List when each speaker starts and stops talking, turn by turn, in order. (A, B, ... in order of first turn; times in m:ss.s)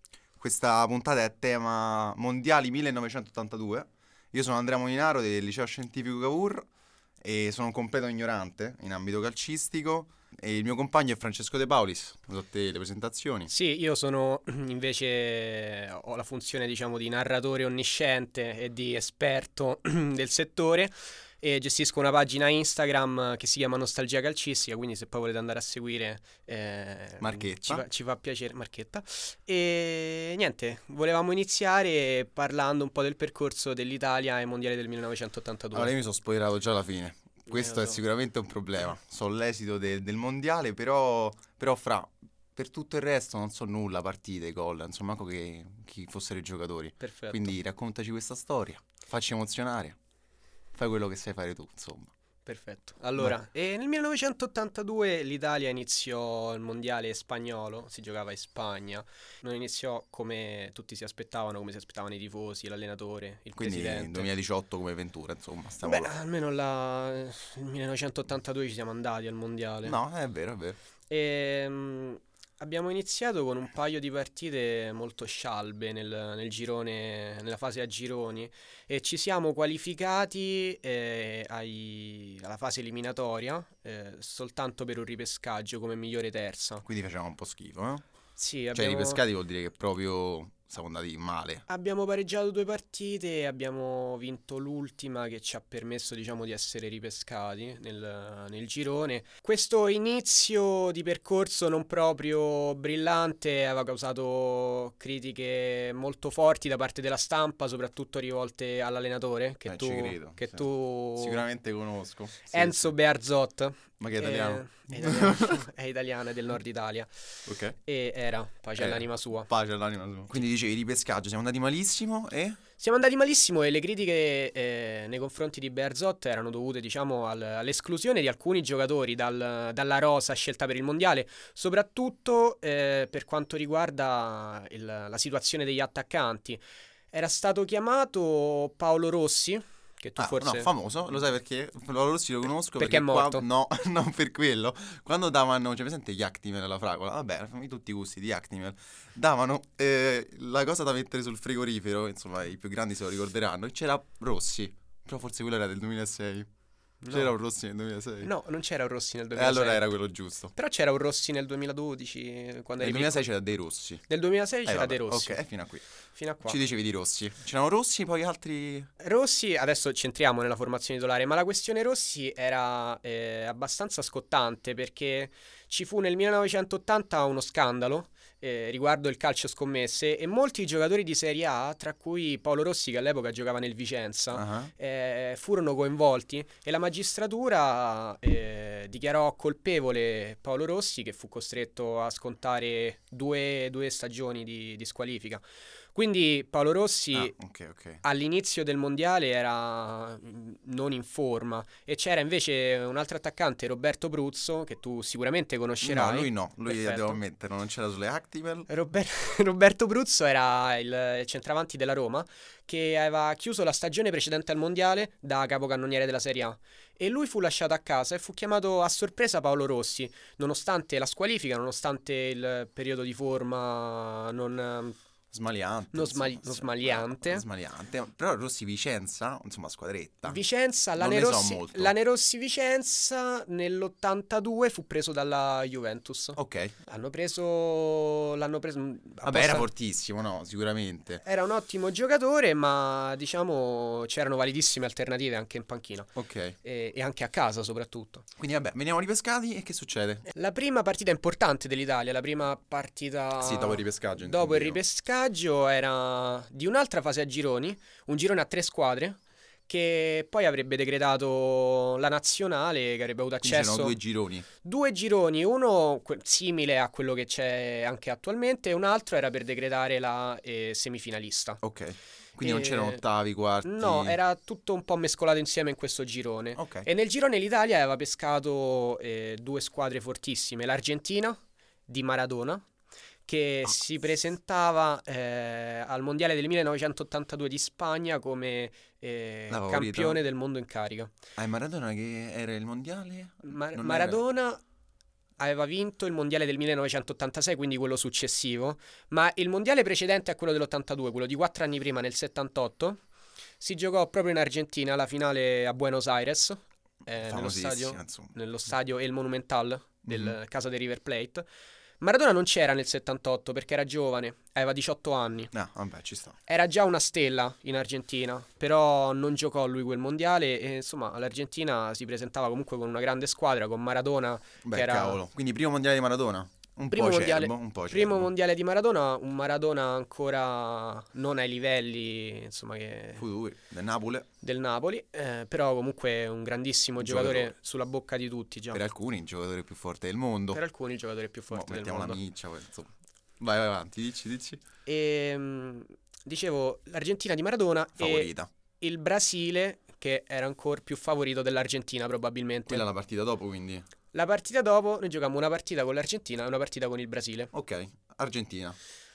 0:00.4-0:06.7 A
0:07.2-0:13.5 A
0:13.5-0:35.9 B
0:27.2-0:27.8 A
0:35.7-0:50.0 A
0:37.5-0:38.0 B
0:47.0-0:47.5 B
0:50.8-0:52.1 A
0:52.5-1:04.3 B
1:03.6-1:06.1 A
1:05.8-1:10.0 B
1:09.8-1:10.8 A
1:11.1-1:26.8 B
1:26.8-1:28.0 A
1:28.4-1:29.2 B
1:28.7-1:31.6 A
1:31.7-1:51.4 B
1:49.7-1:50.7 A
1:51.2-1:52.9 A
1:52.5-1:57.1 B
1:54.0-1:55.6 A
1:57.5-1:57.8 A
1:57.8-1:59.5 B
1:58.8-2:02.6 A
2:02.8-2:20.7 B
2:20.2-2:36.5 A
2:22.8-2:23.5 B
2:37.0-2:37.3 B
2:37.1-2:38.3 A
2:38.2-2:39.9 B
2:39.4-2:40.5 A
2:40.6-2:43.3 B
2:42.8-2:44.0 A
2:44.1-2:45.4 B
2:44.6-2:45.8 A
2:46.2-2:46.6 B
2:46.4-2:48.9 A
2:49.0-3:15.4 B
3:04.3-3:04.7 A
3:15.9-3:17.4 B
3:17.1-3:18.0 A
3:18.0-3:27.2 B
3:25.8-3:28.7 A
3:28.7-3:45.0 B
3:45.3-3:50.4 A
3:45.9-3:47.4 B
3:50.3-3:59.7 B
3:51.0-3:51.9 A
3:56.4-3:56.7 A
3:59.2-4:01.2 A
4:01.2-4:06.1 B
4:06.2-4:06.6 A
4:06.6-4:08.3 B
4:08.4-4:10.3 A
4:10.3-4:24.0 B
4:13.4-4:14.8 A
4:23.4-4:24.5 A
4:24.6-4:31.6 B
4:31.6-4:34.2 A
4:32.4-4:33.0 B
4:33.6-4:42.7 B
4:36.6-4:36.9 A
4:43.3-4:51.1 B
4:49.5-4:50.2 A
4:51.4-4:54.2 A
4:53.5-4:54.6 B
4:55.4-5:03.0 B
5:03.6-5:11.5 B
5:07.3-5:08.3 A
5:10.1-5:10.4 A
5:12.0-5:15.5 B
5:15.5-5:16.4 A
5:16.5-5:25.2 B
5:24.6-5:28.3 A
5:26.9-5:33.2 B
5:33.2-5:34.3 A
5:34.4-5:38.8 B
5:37.0-5:37.5 A
5:38.7-5:40.6 A
5:40.5-5:42.2 B
5:41.5-5:44.6 A
5:44.9-5:52.8 B
5:48.0-5:48.5 A
5:52.7-5:53.9 A
5:54.1-5:57.5 B
5:57.5-5:58.8 A